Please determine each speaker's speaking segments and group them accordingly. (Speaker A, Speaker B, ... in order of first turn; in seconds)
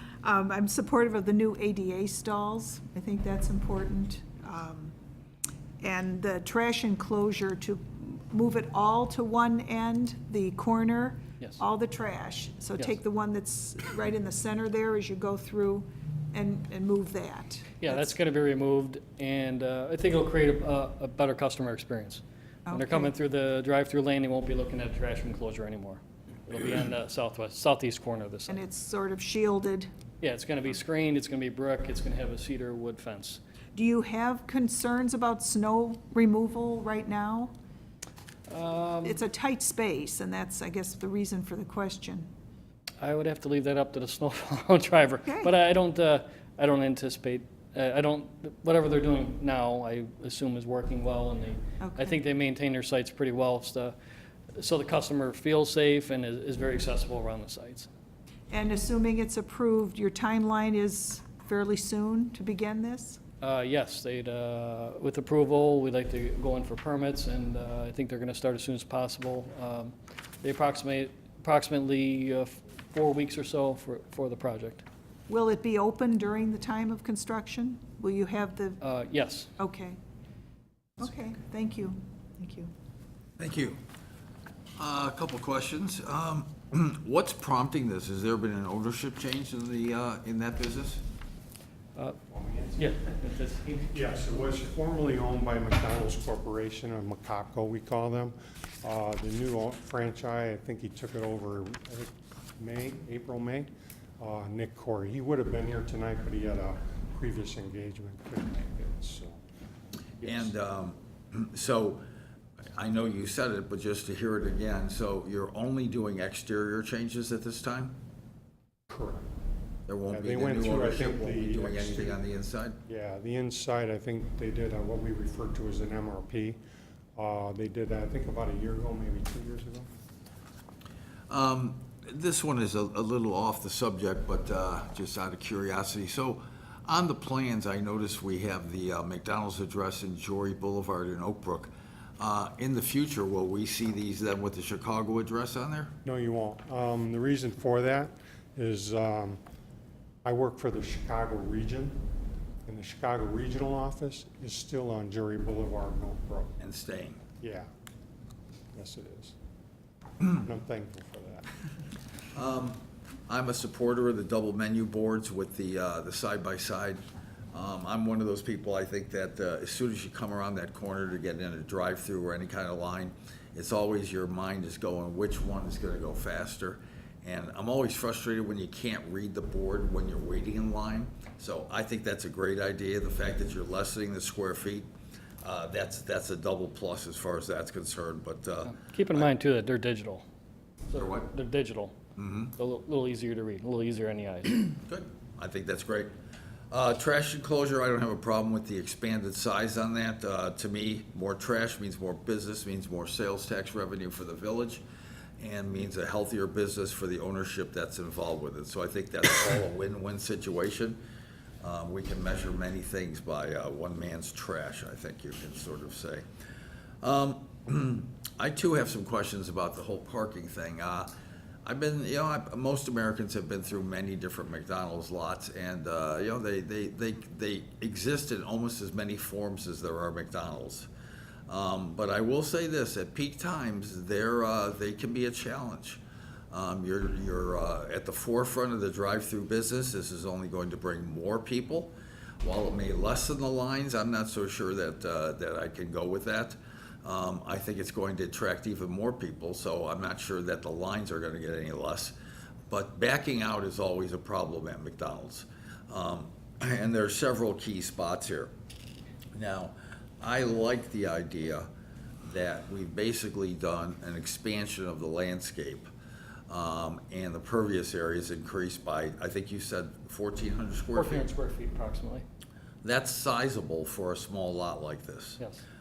Speaker A: 0.2-4.9, 5.8-18.1, 22.7-23.1, 28.5-29.9, 33.8-37.5, 39.0-42.3, 45.2-45.5, 51.8-52.2, 58.5-63.2, 75.3-78.8, 79.6-80.0, 81.0-82.7
Speaker B: 17.8-28.6, 30.2-33.4, 38.5-39.2, 43.0-54.0, 54.5-57.9, 63.4-74.8, 78.8-79.5, 92.8-93.9, 188.7-190.3, 190.9-191.9, 192.6-194.8, 270.9-272.2
Speaker C: 83.4-83.8, 84.8-91.0, 110.2-112.0, 112.8-118.0, 119.9-122.8, 131.3-145.9, 156.6-157.2, 162.3-167.0, 167.5-184.9, 185.4-189.3, 190.9-191.3, 192.2-192.5, 194.8-196.1, 196.7-204.8, 205.4-211.0, 211.6-216.3, 217.0-221.1, 221.6-230.9, 231.5-236.0, 236.5-252.2, 252.7-258.5, 259.4-261.7, 262.2-265.9, 266.5-271.3, 272.8-275.4
Speaker D: 92.3-92.8, 93.9-109.4, 110.2-110.5, 118.9-119.3, 120.1-122.2, 122.9-126.6, 127.2-129.9, 146.1-149.4, 150.2-152.0, 152.7-156.6, 157.4-157.7, 158.7-159.4, 160.2-161.5